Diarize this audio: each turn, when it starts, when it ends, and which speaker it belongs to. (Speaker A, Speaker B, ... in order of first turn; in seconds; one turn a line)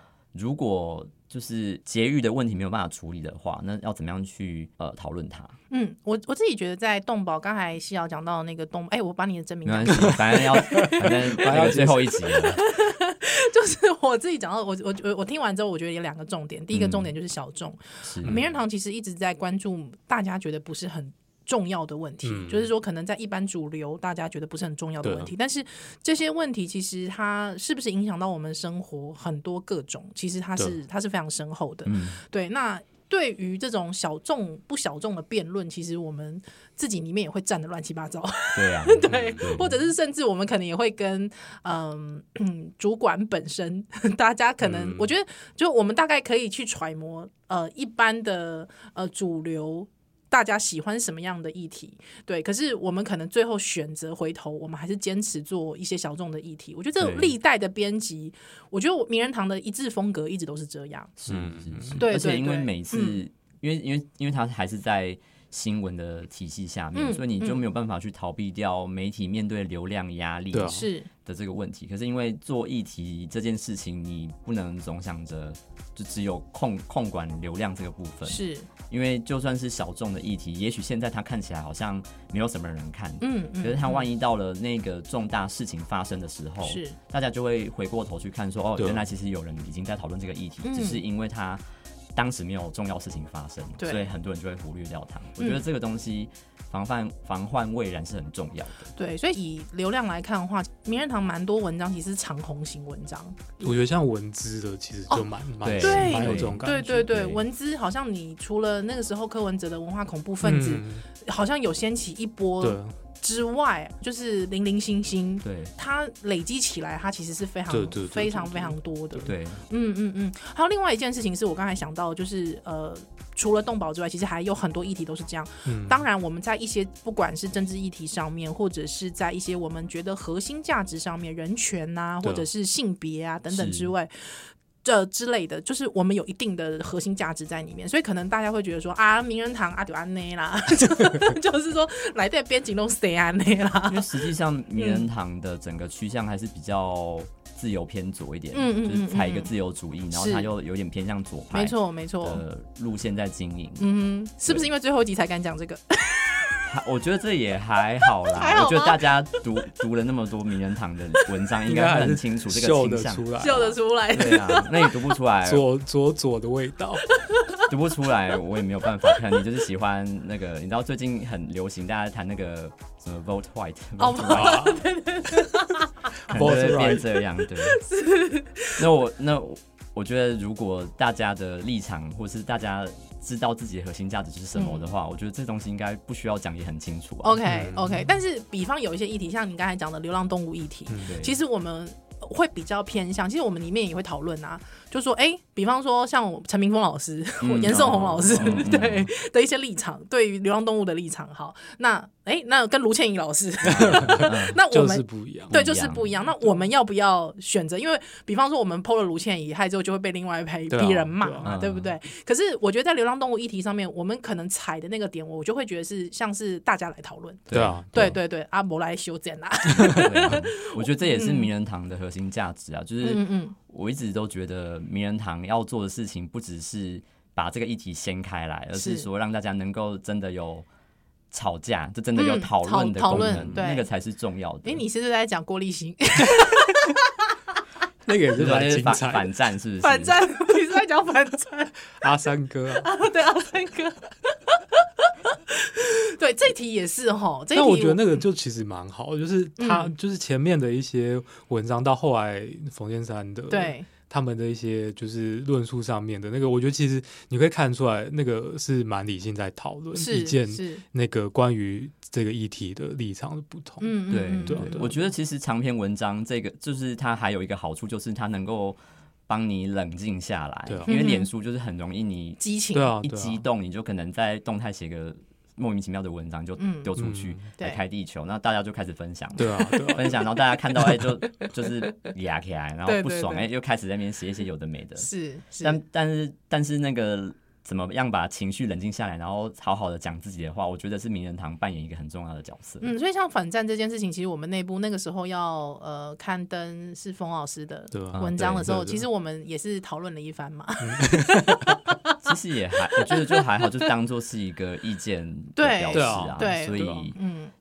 Speaker A: 0.3-5.5
Speaker B: 5.7-61.1
Speaker A: 9.6-12.6
Speaker C: 10.1-12.3
Speaker A: 16.7-17.1
Speaker A: 18.0-18.4
Speaker C: 22.2-22.7
Speaker C: 25.0-25.3
Speaker A: 31.9-32.2
Speaker A: 38.5-39.7
Speaker C: 39.0-39.4
Speaker C: 44.6-45.1
Speaker A: 57.0-57.4
Speaker A: 61.2-91.6
Speaker C: 61.3-62.0
Speaker B: 62.0-63.2
Speaker B: 66.9-67.6
Speaker C: 70.5-70.9
Speaker B: 70.7-71.1
Speaker B: 78.2-78.7
Speaker B: 83.2-84.1
Speaker B: 86.6-87.0
Speaker C: 88.8-89.0
Speaker B: 90.6-91.0
Speaker A: 92.1-98.9
Speaker B: 93.8-94.1
Speaker B: 99.0-103.4
Speaker C: 103.6-107.3
Speaker B: 105.1-144.2
Speaker A: 105.6-107.4
Speaker C: 110.4-111.0
Speaker C: 112.6-112.9
Speaker A: 115.4-115.7
Speaker C: 117.7-119.2
Speaker A: 119.2-119.6
Speaker C: 125.7-126.0
Speaker C: 132.2-132.5
Speaker A: 133.5-133.9
Speaker A: 143.9-153.9
Speaker B: 144.8-145.0
Speaker B: 148.5-149.5
Speaker B: 150.1-150.5
Speaker B: 151.5-152.4
Speaker B: 153.8-156.6
Speaker A: 156.7-163.3
Speaker B: 158.3-159.4
Speaker C: 161.7-163.8
Speaker B: 163.4-165.0
Speaker A: 164.1-165.7
Speaker C: 165.4-167.1
Speaker B: 167.2-167.7
Speaker A: 167.7-174.6
Speaker B: 174.0-176.3
Speaker C: 174.3-174.8
Speaker C: 176.3-177.1
Speaker A: 176.3-177.8
Speaker B: 177.7-178.8
Speaker A: 178.8-187.4
Speaker B: 184.5-184.8
Speaker B: 187.2-221.5
Speaker C: 187.4-188.1
Speaker C: 190.9-191.2
Speaker A: 191.0-191.4
Speaker A: 197.4-199.1
Speaker C: 197.7-198.7
Speaker A: 203.6-204.6
Speaker C: 203.6-205.6
Speaker A: 205.5-206.1
Speaker C: 206.3-206.6
Speaker C: 210.7-211.5
Speaker A: 211.4-211.9
Speaker A: 217.5-218.1
Speaker C: 217.5-218.2
Speaker A: 219.7-230.7
Speaker C: 219.8-220.1
Speaker B: 223.0-223.5
Speaker B: 228.7-229.1
Speaker A: 231.3-234.8
Speaker B: 232.2-233.9
Speaker C: 233.2-233.5
Speaker B: 234.6-237.1
Speaker C: 238.1-239.3
Speaker A: 238.3-240.2
Speaker B: 239.8-241.8
Speaker C: 242.0-242.9
Speaker B: 242.8-248.2
Speaker C: 247.5-264.9
Speaker B: 249.6-249.9
Speaker B: 253.5-253.9
Speaker B: 259.9-260.8
Speaker B: 263.8-265.0
Speaker A: 264.1-272.4
Speaker C: 270.7-271.0
Speaker B: 270.9-271.3
Speaker B: 272.4-272.9
Speaker C: 272.7-273.4
Speaker A: 273.0-285.1
Speaker B: 276.6-276.9
Speaker C: 276.9-277.4
Speaker B: 277.6-277.8
Speaker C: 279.4-280.1
Speaker B: 279.8-280.0
Speaker B: 282.8-283.5
Speaker B: 285.0-285.8
Speaker A: 285.6-292.9
Speaker B: 292.8-302.2
Speaker C: 297.9-299.0
Speaker A: 298.1-298.7
Speaker C: 300.8-301.7
Speaker A: 302.2-307.2
Speaker B: 303.0-303.4
Speaker B: 305.6-307.5
Speaker C: 305.9-306.6